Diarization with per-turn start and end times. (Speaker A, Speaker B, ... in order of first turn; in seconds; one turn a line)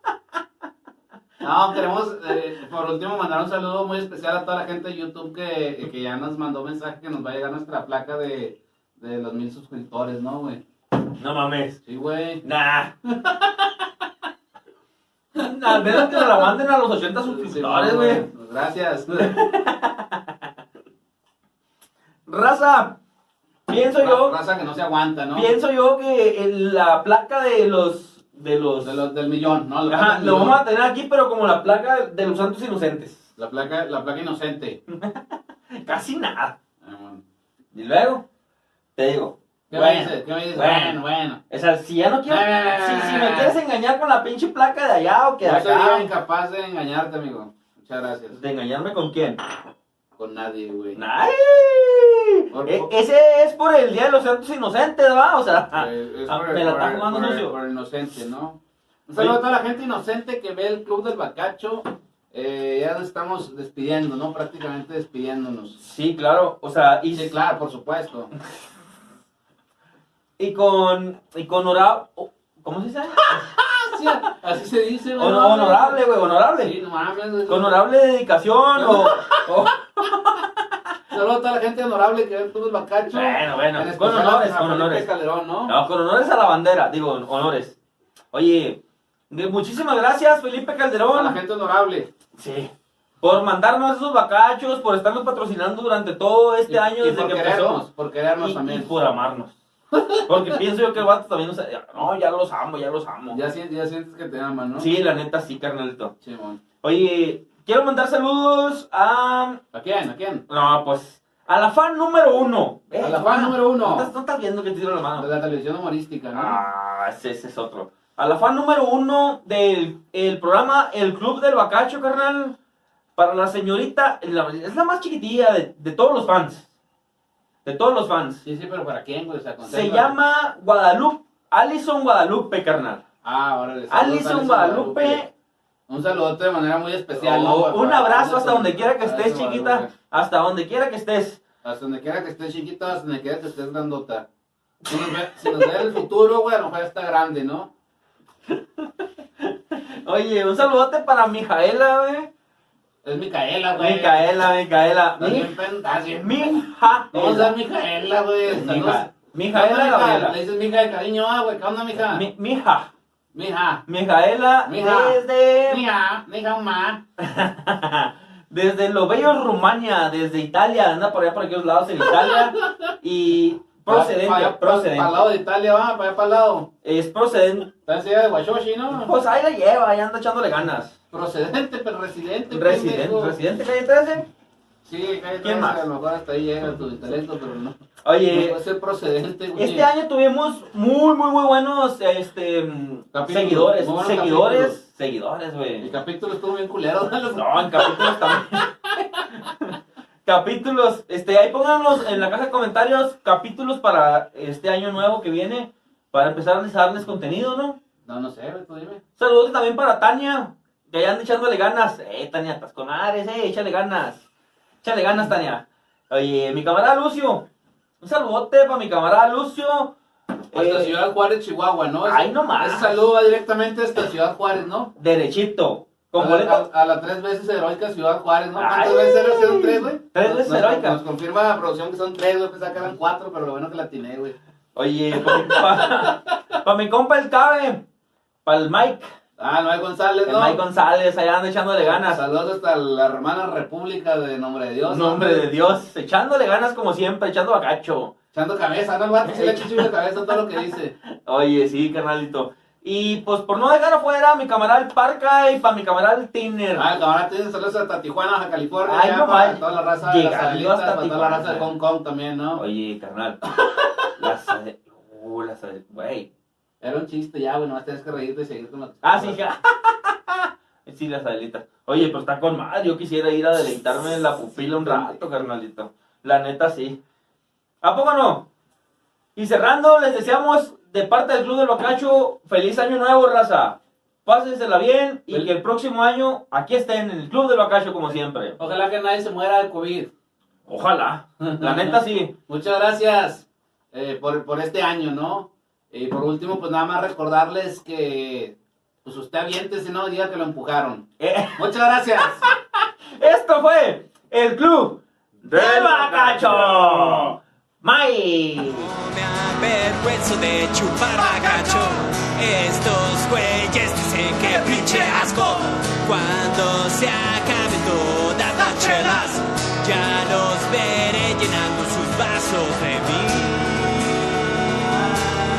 Speaker A: 1.4-10.6
Speaker B: 11.2-11.8
Speaker A: 11.8-12.4
Speaker B: 12.4-12.9
Speaker A: 13.2-13.7
Speaker B: 15.4-18.3
Speaker A: 15.4-16.5
Speaker A: 17.2-19.4
Speaker B: 19.2-20.4
Speaker B: 22.3-23.0
Speaker B: 23.7-24.4
Speaker A: 24.0-25.5
Speaker B: 25.3-29.0
Speaker A: 28.8-30.6
Speaker B: 29.9-33.3
Speaker A: 33.4-34.8
Speaker B: 34.9-36.5
Speaker A: 36.8-37.2
Speaker B: 37.7-38.2
Speaker B: 39.0-41.0
Speaker A: 39.7-41.4
Speaker B: 41.5-46.1
Speaker A: 42.3-43.6
Speaker A: 45.4-48.4
Speaker B: 48.3-49.4
Speaker A: 50.2-51.0
Speaker B: 51.0-57.5
Speaker A: 52.5-52.9
Speaker A: 55.7-65.8
Speaker B: 65.8-67.3
Speaker A: 67.1-68.3
Speaker B: 70.4-74.1
Speaker A: 73.7-76.0
Speaker B: 75.2-76.7
Speaker A: 76.6-77.8
Speaker B: 77.5-80.6
Speaker A: 78.8-79.7
Speaker A: 81.1-85.7
Speaker B: 83.1-85.1
Speaker B: 85.7-87.8
Speaker B: 88.3-91.4
Speaker A: 91.1-92.1
Speaker B: 92.4-97.8
Speaker A: 96.7-98.9
Speaker B: 98.4-99.6
Speaker A: 100.0-100.4
Speaker B: 100.3-103.4
Speaker A: 103.3-104.9
Speaker B: 104.8-106.1
Speaker A: 106.2-106.6
Speaker B: 106.8-109.6
Speaker A: 109.7-110.5
Speaker B: 110.5-115.3
Speaker A: 113.0-114.1
Speaker A: 115.2-116.6
Speaker B: 116.3-122.6
Speaker B: 123.2-126.7
Speaker B: 127.6-128.4
Speaker A: 128.4-130.1
Speaker B: 129.6-133.0
Speaker A: 133.2-135.2
Speaker B: 133.9-135.3
Speaker A: 135.9-139.9
Speaker B: 137.1-141.4
Speaker A: 141.6-144.3
Speaker A: 144.9-147.7
Speaker B: 144.9-145.9
Speaker B: 148.5-152.3
Speaker A: 153.0-154.5
Speaker B: 153.8-155.5
Speaker A: 155.2-162.2
Speaker B: 156.1-157.6
Speaker B: 158.4-160.4
Speaker B: 162.1-162.9
Speaker A: 163.3-163.8
Speaker B: 163.9-165.8
Speaker A: 164.6-167.0
Speaker B: 167.2-175.3
Speaker A: 172.0-172.9
Speaker A: 173.9-176.7
Speaker B: 176.8-177.7
Speaker A: 177.8-179.1
Speaker B: 179.0-181.0
Speaker A: 181.1-183.4
Speaker B: 182.5-184.3
Speaker A: 184.8-187.8
Speaker B: 185.4-185.9
Speaker B: 188.0-188.6
Speaker A: 188.3-189.9
Speaker B: 189.6-195.9
Speaker A: 193.1-194.8
Speaker A: 195.8-199.2
Speaker B: 197.3-207.8
Speaker A: 208.1-209.0
Speaker B: 209.2-214.3
Speaker B: 214.8-217.5
Speaker B: 218.0-219.9
Speaker B: 220.5-220.9
Speaker A: 220.5-224.9
Speaker B: 222.1-223.1
Speaker B: 225.0-226.7
Speaker A: 226.2-234.4
Speaker B: 228.6-231.0
Speaker B: 234.8-237.8
Speaker A: 235.1-236.2
Speaker B: 238.4-239.1
Speaker A: 239.4-240.6
Speaker B: 240.2-242.2
Speaker A: 241.8-245.5
Speaker B: 244.9-248.1
Speaker A: 248.3-250.9
Speaker B: 249.2-250.4
Speaker B: 251.0-256.9
Speaker A: 256.8-262.6
Speaker B: 258.9-261.7
Speaker B: 262.6-263.4
Speaker B: 264.2-266.3
Speaker A: 266.8-269.4
Speaker B: 269.0-277.0
Speaker A: 274.6-275.2
Speaker B: 277.8-278.5
Speaker B: 279.4-288.6
Speaker A: 288.6-290.1
Speaker B: 290.7-292.3
Speaker A: 291.4-302.5
Speaker B: 301.2-301.7
Speaker B: 302.2-302.6
Speaker B: 303.1-308.9
Speaker A: 305.5-307.2
Speaker C: 308.7-325.1
Speaker B: 314.4-315.6